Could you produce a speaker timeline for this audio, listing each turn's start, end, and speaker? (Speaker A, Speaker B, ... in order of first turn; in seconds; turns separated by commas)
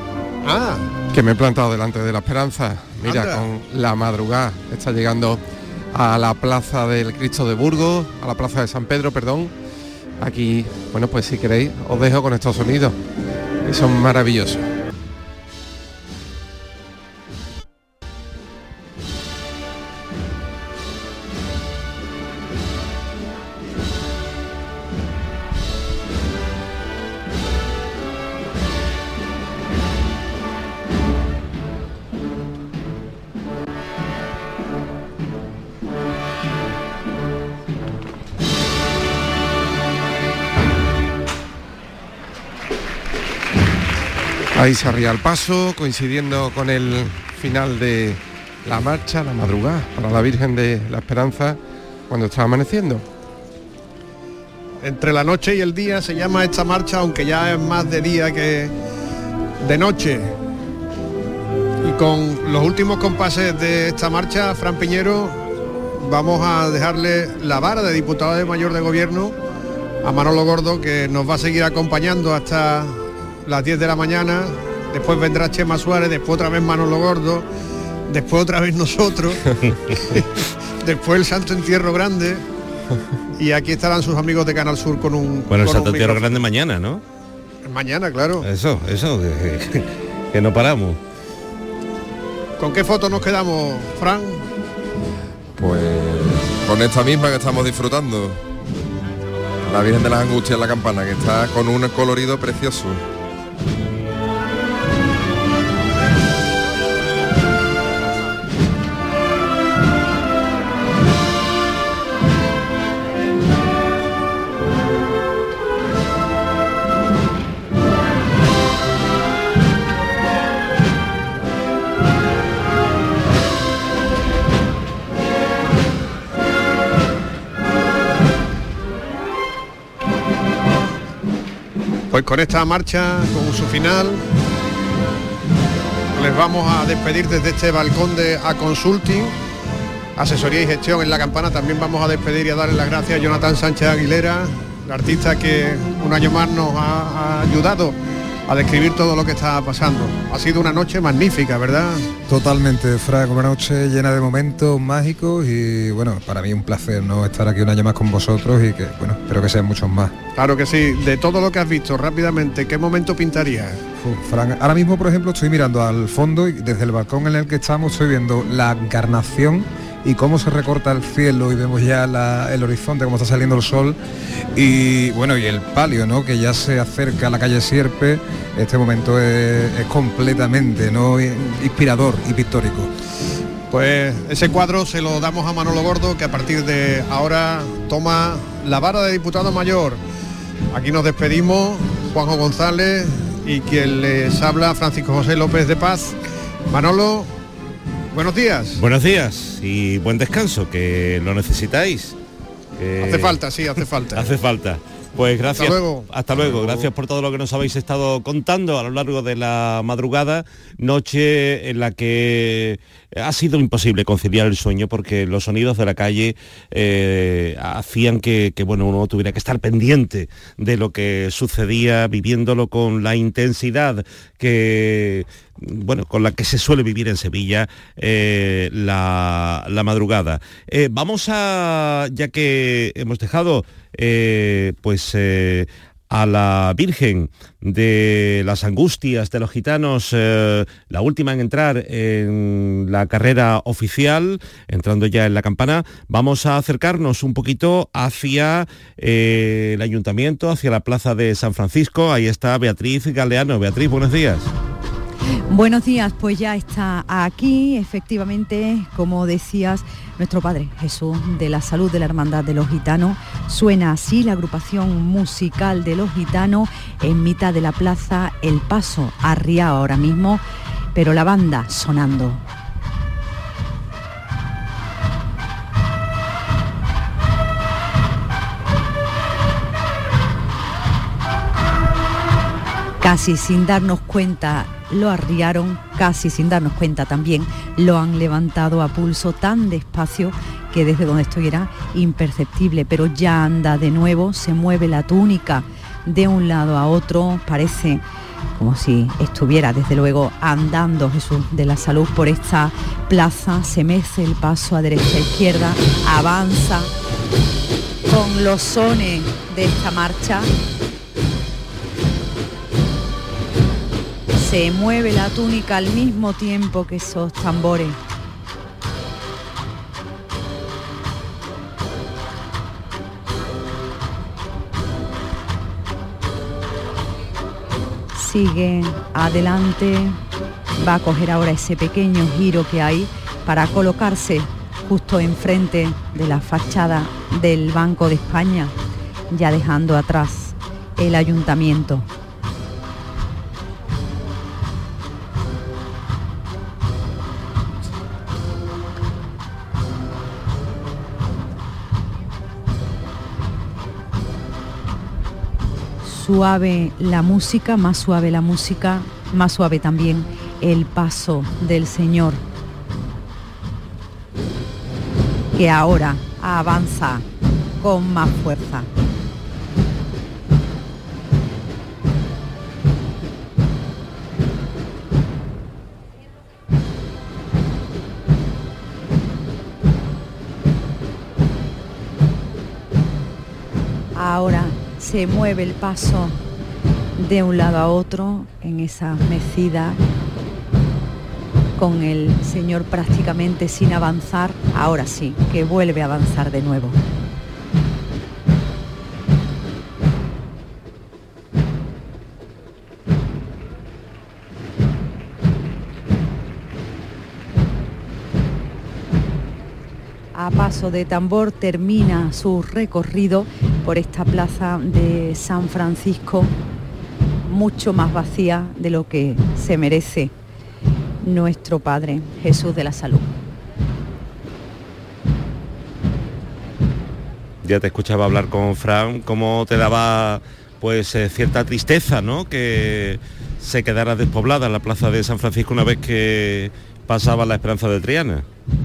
Speaker A: 0.4-0.9, Speaker B: 1.1-5.4, Speaker A: 3.0-3.4, Speaker B: 5.9-9.5, Speaker B: 10.2-13.0, Speaker B: 13.6-14.7, Speaker B: 44.5-53.0, Speaker A: 54.8-58.7, Speaker A: 59.6-60.3, Speaker A: 61.8-65.5, Speaker A: 66.0-69.4, Speaker A: 70.0-77.5, Speaker A: 78.1-79.4, Speaker A: 79.9-82.4, Speaker A: 83.4-86.3, Speaker C: 85.5-87.0, Speaker A: 87.6-88.5, Speaker C: 88.4-91.0, Speaker A: 92.6-94.5, Speaker D: 95.6-98.4, Speaker D: 99.6-103.0, Speaker A: 132.1-134.2, Speaker A: 136.1-139.3, Speaker A: 140.2-152.1, Speaker E: 152.3-160.1, Speaker A: 160.3-163.8, Speaker E: 164.0-174.0, Speaker E: 174.5-182.9, Speaker A: 183.7-190.0, Speaker A: 190.7-196.2, Speaker A: 196.7-197.3, Speaker A: 198.1-198.8, Speaker C: 198.8-202.2, Speaker C: 202.8-203.4, Speaker A: 203.0-204.3, Speaker C: 204.1-254.5, Speaker A: 205.5-206.9, Speaker F: 255.5-270.4, Speaker F: 270.9-272.4, Speaker F: 283.0-298.0, Speaker F: 298.5-306.9, Speaker F: 308.1-310.5, Speaker F: 314.4-318.0, Speaker F: 328.1-330.2, Speaker F: 330.8-338.7, Speaker F: 339.3-342.1, Speaker F: 356.0-362.4, Speaker F: 365.5-367.2, Speaker F: 367.8-368.9, Speaker F: 384.1-386.4, Speaker F: 387.2-390.0, Speaker F: 391.8-397.0, Speaker F: 410.3-416.6, Speaker F: 417.4-420.3, Speaker F: 421.2-423.3, Speaker C: 427.6-438.4